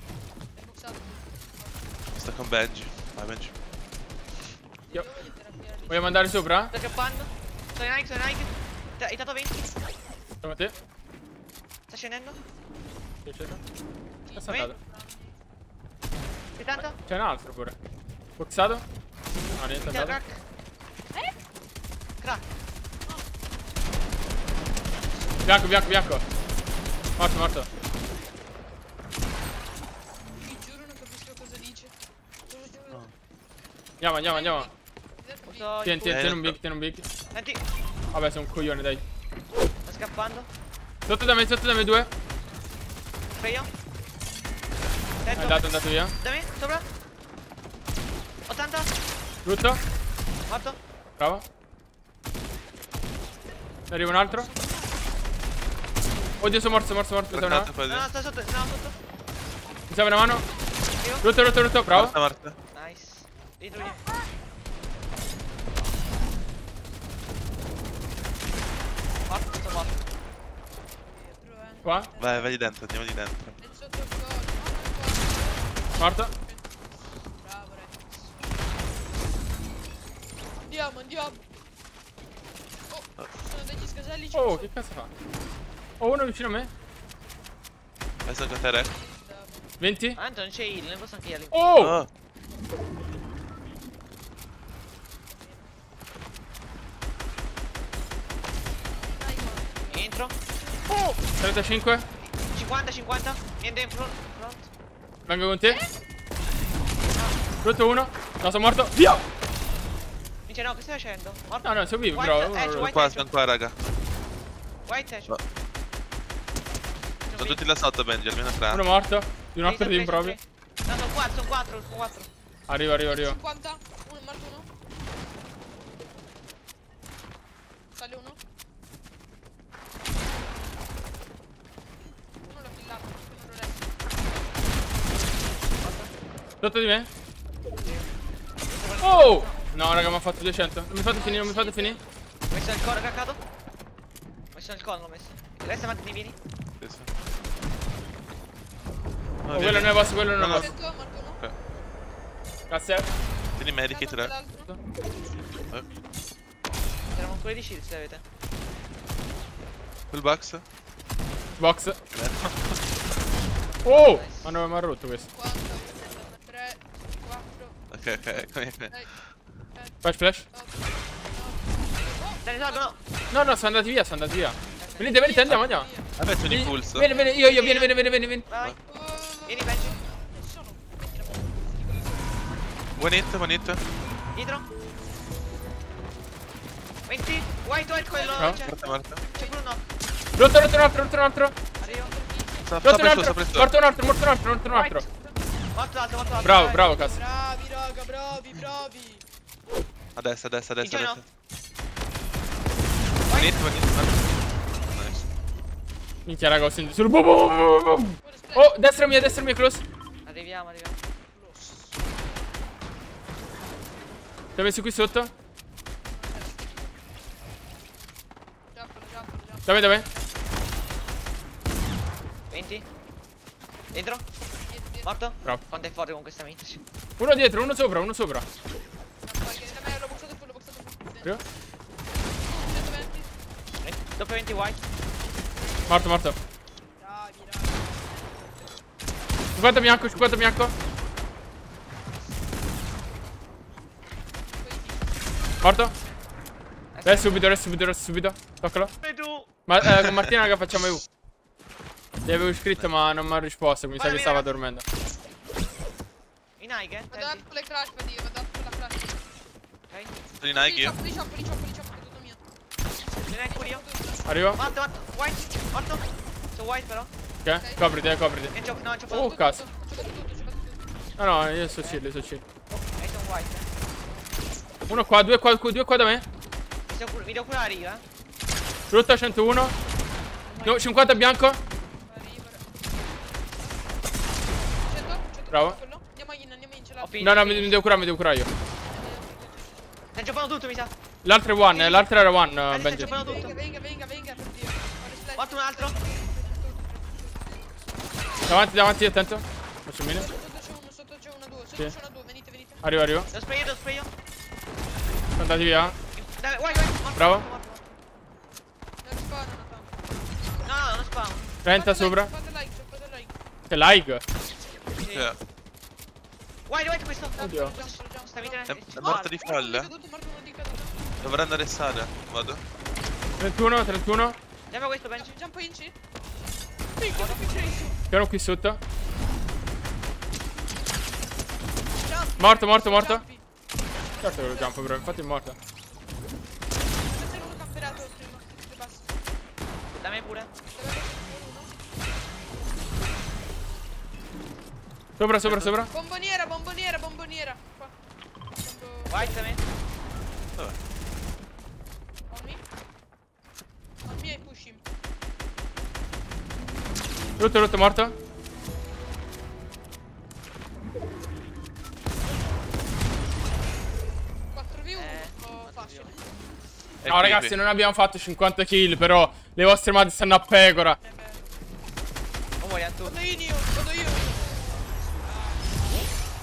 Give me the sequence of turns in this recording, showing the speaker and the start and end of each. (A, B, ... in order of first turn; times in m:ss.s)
0:00.6-0:01.9 A
0:02.2-0:03.5 B
0:04.9-0:06.3 A
0:05.9-0:06.7 C
0:06.7-0:09.6 D
0:10.4-0:10.7 C
0:11.9-0:12.4 D
0:13.2-0:13.6 C
0:14.2-0:15.4 A
0:14.4-0:14.7 C
0:16.6-0:17.0 D
0:17.0-0:17.8 C
0:18.4-0:18.8 C
0:19.6-0:20.2 C
0:19.8-0:20.4 D
0:25.4-0:26.2 C
0:27.2-0:27.7 C
0:30.4-0:31.9 A
0:32.5-0:33.1 A
0:34.0-0:34.7 C
0:34.2-0:35.8 A
0:35.4-0:36.3 D
0:35.8-0:37.1 C
0:36.0-0:36.6 B
0:37.3-0:37.6 D
0:38.1-0:39.0 C
0:39.9-0:40.5 D
0:41.1-0:42.1 C
0:43.4-0:43.7 D
0:45.2-0:45.6 D
0:45.3-0:46.1 C
0:46.2-0:46.9 D
0:48.5-0:48.9 D
0:49.4-0:49.8 C
0:50.5-0:50.8 D
0:51.2-0:51.4 C
0:53.9-0:54.5 C
0:54.2-0:55.0 A
0:56.4-0:57.7 C
0:57.3-0:58.1 B
0:57.9-0:59.0 D
0:59.9-1:00.4 C
1:00.9-1:01.3 D
1:01.2-1:02.2 C
1:01.9-1:02.6 B
1:02.7-1:04.0 D
1:09.3-1:10.0 D
1:11.1-1:12.5 A
1:11.8-1:12.1 C
1:12.2-1:13.6 B
1:13.6-1:18.4 A
1:16.0-1:16.3 C
1:20.7-1:21.4 A
1:22.9-1:24.7 A
1:24.3-1:25.1 C
1:26.0-1:26.7 C
1:28.3-1:28.9 B
1:28.7-1:29.7 A
1:29.8-1:30.2 C
1:30.2-1:31.9 D
1:31.5-1:32.0 C
1:31.8-1:32.1 B
1:39.0-1:40.2 A
1:39.9-1:40.4 D
1:40.9-1:41.2 D
1:41.4-1:42.0 C
1:42.2-1:44.7 D
1:45.3-1:45.8 C
1:47.1-1:47.4 D
1:47.6-1:49.2 C
1:50.5-1:53.3 D
1:51.6-1:52.9 C
1:52.7-1:53.8 B
1:54.9-1:55.3 D
1:57.3-1:57.7 D
1:57.4-1:58.8 B
1:58.7-2:00.4 C
1:59.6-2:02.3 D
2:02.7-2:03.4 C
2:03.1-2:04.7 A
2:08.0-2:08.4 A
2:12.4-2:14.4 A
2:15.8-2:16.1 D
2:16.6-2:17.1 C
2:17.8-2:18.1 D
2:18.7-2:19.6 D
2:19.0-2:22.0 C
2:21.1-2:22.0 A
2:22.5-2:23.4 D
2:24.5-2:26.4 D
2:26.8-2:27.1 B
2:29.4-2:30.8 B
2:29.5-2:30.7 C
2:30.5-2:31.4 A
2:32.7-2:33.1 C
2:33.6-2:34.3 B
2:33.9-2:34.7 A
2:37.1-2:38.2 D
2:40.1-2:40.6 B
2:41.6-2:42.0 C
2:42.1-2:42.8 B
2:43.7-2:44.6 D
2:43.8-2:45.3 C
2:45.3-2:47.8 A
2:47.9-2:49.0 B
2:50.0-2:50.4 C
2:50.5-2:53.0 A
2:52.4-2:53.0 D
2:53.3-2:55.9 C
2:54.8-2:55.2 D
2:55.0-2:57.4 A
2:56.2-2:57.1 B
2:56.5-2:58.5 C
2:57.1-2:58.0 D
2:58.5-2:58.8 D
2:58.9-3:02.7 A
2:59.5-3:00.0 D
3:03.0-3:03.8 B
3:04.4-3:04.7 D
3:07.1-3:09.8 D
3:07.8-3:09.7 A
3:08.6-3:09.2 B
3:10.4-3:11.6 C
3:11.8-3:12.8 A
3:11.8-3:12.1 D
3:12.6-3:13.7 B
3:12.8-3:15.0 C
3:14.7-3:15.1 D
3:15.8-3:16.8 D
3:16.2-3:19.2 A
3:16.4-3:17.2 C
3:20.2-3:21.2 B
3:20.8-3:21.2 D
3:23.3-3:23.6 D
3:23.3-3:25.3 B
3:26.3-3:29.8 C
3:28.2-3:28.7 A
3:30.3-3:31.0 D
3:31.3-3:32.0 A
3:34.6-3:35.3 C
3:36.1-3:37.0 A
3:38.7-3:40.6 A
3:39.7-3:40.1 C
3:42.5-3:42.9 D
3:43.9-3:44.2 D
3:44.6-3:45.2 A
3:45.0-3:46.8 D
3:47.2-3:48.5 C
3:49.2-3:51.5 A
3:52.2-3:53.3 A
3:53.8-3:54.8 D
3:55.9-3:56.4 C
3:57.0-3:58.5 A
3:59.6-4:00.7 C
4:04.4-4:06.0 A
4:05.6-4:05.9 C
4:06.9-4:07.4 D
4:07.0-4:08.9 C
4:09.0-4:09.5 D
4:09.7-4:11.0 C
4:09.8-4:10.2 B
4:12.3-4:14.8 C
4:14.0-4:14.5 D
4:16.6-4:17.4 D
4:17.1-4:19.2 A
4:19.9-4:20.2 D
4:20.4-4:21.0 B
4:20.5-4:22.4 A
4:23.3-4:23.8 D
4:23.3-4:24.4 A
4:24.3-4:24.6 C
4:24.6-4:27.1 D
4:27.4-4:28.5 C
4:27.6-4:28.1 A
4:28.5-4:29.4 D
4:29.1-4:29.6 C
4:29.1-4:30.8 A
4:31.2-4:32.4 C
4:32.7-4:33.7 D
4:34.9-4:36.2 C
4:36.9-4:38.0 D
4:38.9-4:39.8 C
4:40.5-4:41.0 D
4:40.6-4:41.6 C
4:42.0-4:42.8 A
4:44.8-4:47.4 A
4:45.5-4:45.8 C
4:47.0-4:47.8 D
4:47.2-4:48.5 C
4:48.8-4:49.9 A
4:50.2-4:50.9 D
4:51.2-4:53.2 C
4:51.7-4:52.1 D
4:52.7-4:53.6 D
4:52.9-4:57.6 A
4:55.4-4:56.0 D
4:58.5-5:00.3 C
5:00.1-5:02.8 A
5:02.8-5:03.3 C
5:03.3-5:04.1 D
5:05.4-5:06.0 C
5:06.2-5:08.0 D
5:06.6-5:07.0 A
5:07.2-5:07.4 C
5:09.0-5:09.9 A
5:10.6-5:11.5 D
5:11.6-5:12.3 C
5:11.6-5:13.4 A
5:13.7-5:14.2 C
5:15.0-5:15.3 D
5:15.1-5:15.4 B
5:16.7-5:19.4 D
5:17.4-5:21.0 A
5:17.4-5:17.7 C
5:18.7-5:19.9 B
5:21.2-5:22.6 B
5:23.4-5:24.4 C
5:24.7-5:25.3 D
5:25.2-5:26.0 A
5:27.0-5:28.0 A
5:27.1-5:27.5 D
5:28.1-5:28.8 C
5:32.0-5:33.4 A
5:32.4-5:33.2 C
5:34.1-5:34.8 A
5:34.2-5:35.6 C
5:37.1-5:39.2 A
5:40.0-5:40.5 D
5:40.7-5:41.7 A
5:45.2-5:45.9 C
5:45.4-5:45.7 D
5:45.9-5:47.9 A
5:48.6-5:49.4 A
5:49.1-5:49.6 D
5:52.3-5:52.6 A
5:54.0-5:54.8 A
5:57.4-5:58.1 C
6:04.5-6:06.2 A
6:04.9-6:06.2 D
6:07.0-6:07.6 B
6:07.0-6:11.0 C
6:11.0-6:11.5 A
6:12.6-6:13.2 D
6:13.0-6:15.8 A